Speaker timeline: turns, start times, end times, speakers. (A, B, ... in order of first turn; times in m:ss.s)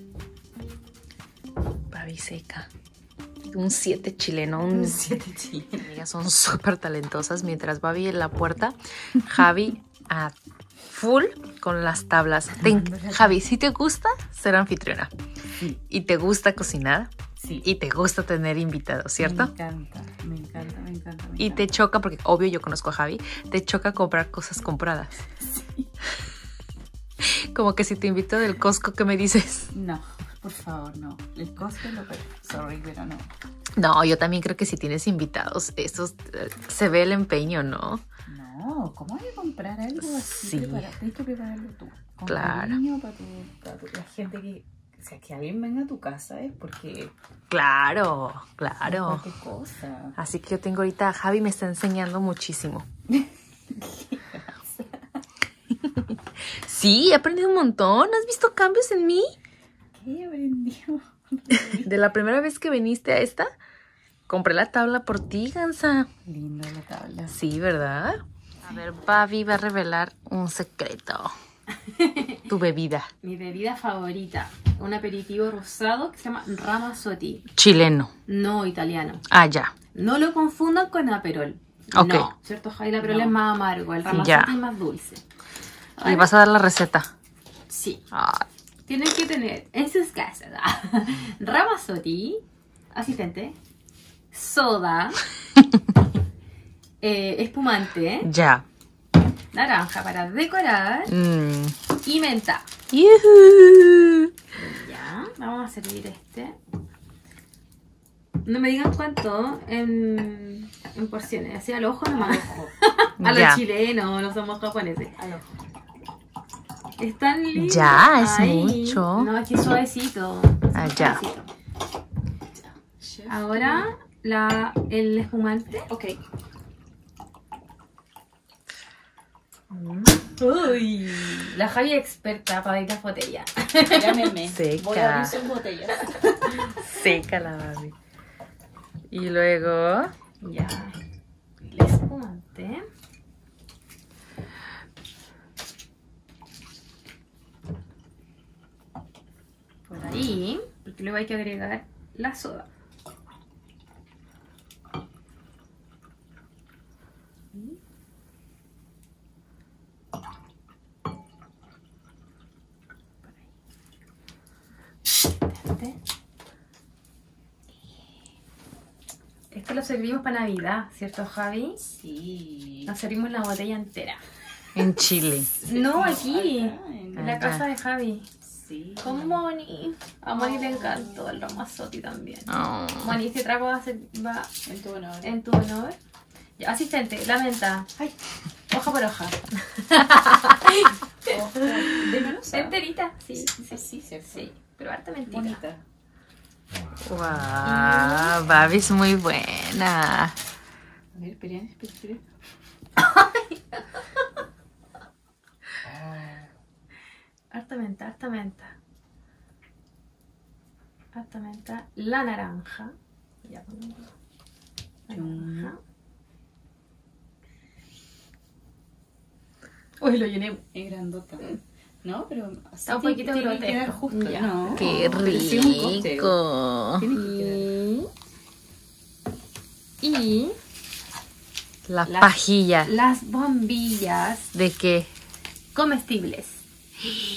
0:01.9-0:02.7 A
0:03.5-0:05.0 A
0:04.7-0:05.9 B
0:05.8-0:10.4 A
0:10.9-0:15.1 A
0:12.6-0:13.4 B
0:15.9-0:17.1 A
0:17.4-0:17.7 B
0:17.6-0:19.5 A
0:19.2-0:21.7 B
0:21.4-0:25.1 A
0:25.4-0:25.9 B
0:27.2-0:29.7 A
0:29.7-0:33.3 B
0:33.8-0:38.0 A
0:38.3-0:47.1 B
0:40.0-0:40.9 A
0:42.2-0:42.8 A
0:47.5-0:49.3 A
0:48.8-0:50.2 B
0:50.2-0:52.9 A
0:53.2-0:55.2 B
0:56.6-0:59.3 A
1:00.0-1:01.9 B
1:01.7-1:03.5 A
1:04.3-1:06.1 A
1:06.3-1:07.4 B
1:07.3-1:11.3 A
1:11.8-1:12.4 C
1:12.5-1:13.1 A
1:13.2-1:17.5 C
1:17.6-1:18.1 A
1:18.3-1:19.2 C
1:19.3-1:19.7 A
1:20.0-1:25.2 C
1:21.9-1:22.3 A
1:23.0-1:23.3 A
1:24.0-1:24.5 A
1:26.0-1:26.3 C
1:26.0-1:27.1 A
1:27.7-1:28.0 C
1:28.1-1:28.4 A
1:28.9-1:32.4 C
1:32.9-1:33.6 C
1:34.3-1:35.2 C
1:37.0-1:38.3 C
1:38.2-1:38.6 A
1:39.5-1:41.1 C
1:41.1-1:41.8 A
1:42.0-1:42.7 C
1:42.9-1:44.3 A
1:44.5-1:46.6 C
1:48.4-1:55.2 C
1:52.2-1:52.7 B
1:53.2-1:53.6 A
1:55.2-1:55.4 B
1:57.0-2:01.5 C
1:57.6-1:59.3 A
2:00.7-2:01.2 A
2:02.5-2:03.9 B
2:03.3-2:05.9 C
2:05.9-2:06.2 B
2:09.7-2:14.4 C
2:13.9-2:16.7 B
2:14.5-2:15.4 A
2:16.8-2:17.9 A
2:19.1-2:20.1 A
2:20.4-2:21.0 C
2:21.7-2:22.8 C
2:29.9-2:30.4 B
2:30.0-2:32.7 C
2:45.5-2:46.0 C
2:49.5-2:51.8 C
2:51.8-2:52.9 B
2:52.9-2:54.2 C
2:54.8-2:55.5 A
2:55.4-2:57.3 B
2:55.7-2:58.3 C
2:57.2-2:57.6 A
2:58.4-2:59.6 B
2:59.0-3:04.5 C
3:00.3-3:01.3 B
3:02.5-3:03.2 A
3:04.7-3:05.4 B
3:05.2-3:06.0 C
3:06.6-3:08.1 C
3:08.7-3:11.3 C
3:11.2-3:12.8 B
3:11.9-3:15.6 C
3:13.4-3:14.5 B
3:15.3-3:15.8 B
3:17.0-3:20.4 A
3:17.6-3:18.4 C
3:21.1-3:22.2 B
3:23.0-3:23.8 C
3:26.0-3:26.3 B
3:27.5-3:28.8 C
3:31.1-3:32.9 C
3:33.4-3:34.1 C
3:35.1-3:35.8 C
3:35.1-3:35.7 B
3:40.0-3:40.6 C
3:40.7-3:46.4 B
3:42.9-3:44.8 C
3:44.7-3:47.1 A
3:47.0-3:47.7 B
3:47.2-3:48.1 C
3:50.0-3:50.6 C
3:51.9-3:52.9 A
3:52.1-3:54.5 C
3:54.5-3:55.1 A
3:55.8-3:56.6 C